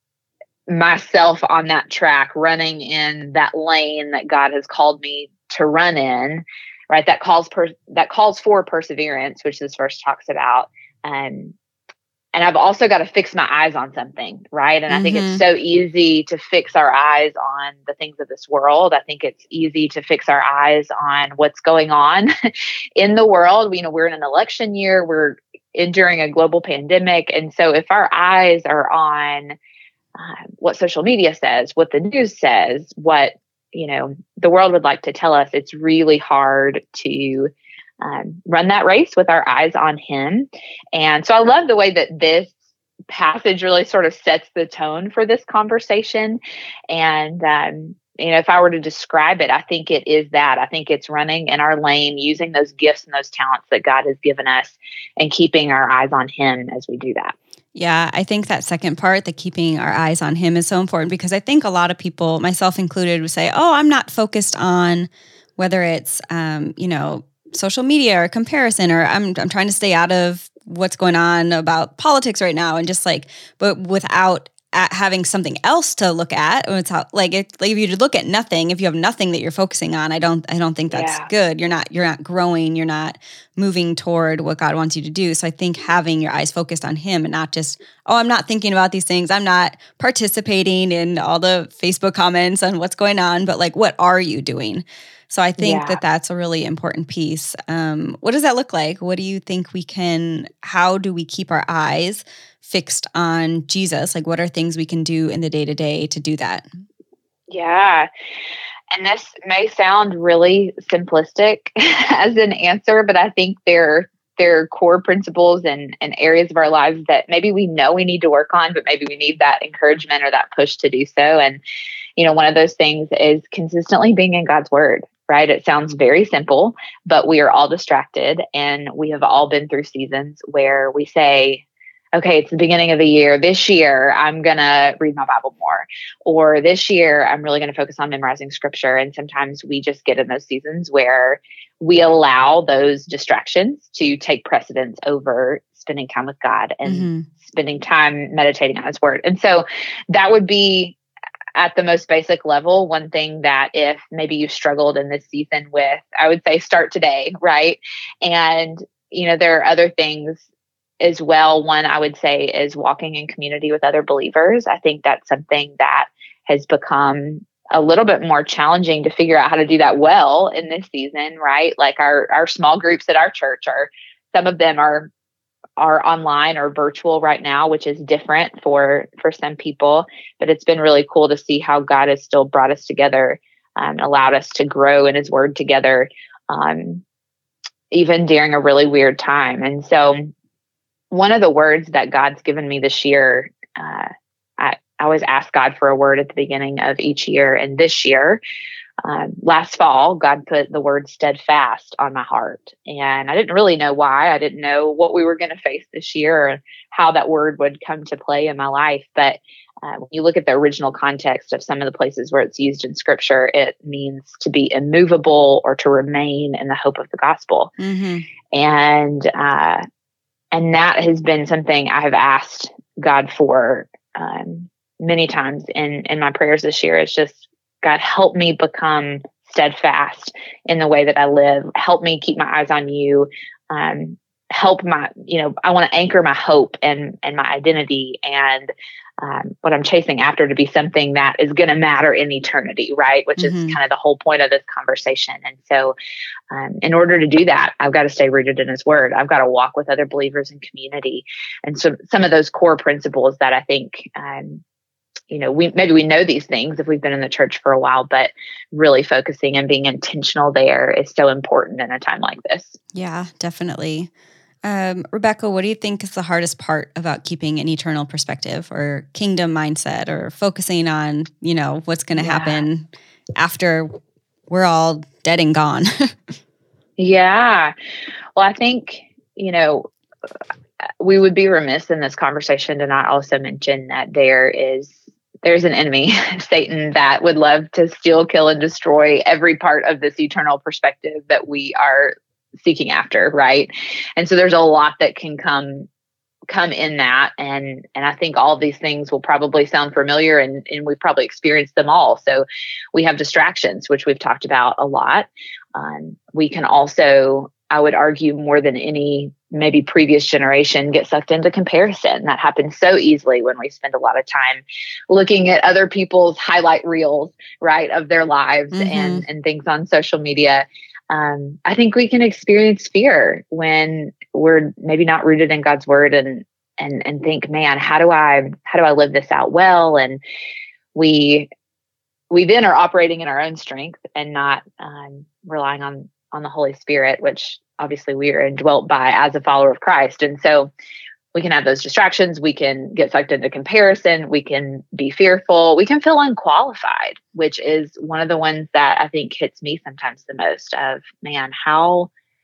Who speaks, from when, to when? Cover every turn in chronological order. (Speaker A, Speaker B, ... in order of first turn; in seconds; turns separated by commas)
Speaker A: 0.7-11.5, Speaker A: 12.3-22.3, Speaker B: 14.9-15.4, Speaker A: 23.0-29.6, Speaker A: 30.1-42.5, Speaker A: 43.1-57.3, Speaker B: 57.7-106.7, Speaker A: 80.9-81.3, Speaker A: 95.6-96.0, Speaker A: 107.5-108.1, Speaker A: 108.9-121.6, Speaker A: 122.2-131.6, Speaker A: 132.1-151.0, Speaker B: 146.8-147.2, Speaker A: 151.5-160.4, Speaker A: 161.0-175.1, Speaker A: 175.8-187.0, Speaker A: 187.9-190.3, Speaker A: 191.1-198.4, Speaker A: 199.0-217.7, Speaker B: 217.8-218.2, Speaker A: 218.5-219.8, Speaker A: 220.5-245.9, Speaker B: 243.4-243.8, Speaker A: 246.5-254.6, Speaker A: 255.3-262.8, Speaker B: 262.9-264.1, Speaker B: 264.6-273.9, Speaker A: 272.1-272.7, Speaker B: 274.5-275.9, Speaker A: 277.0-277.7, Speaker A: 278.4-279.9, Speaker A: 281.0-295.9, Speaker A: 296.5-330.2, Speaker B: 318.7-319.2, Speaker A: 330.9-331.5, Speaker A: 332.3-340.7, Speaker A: 341.3-352.1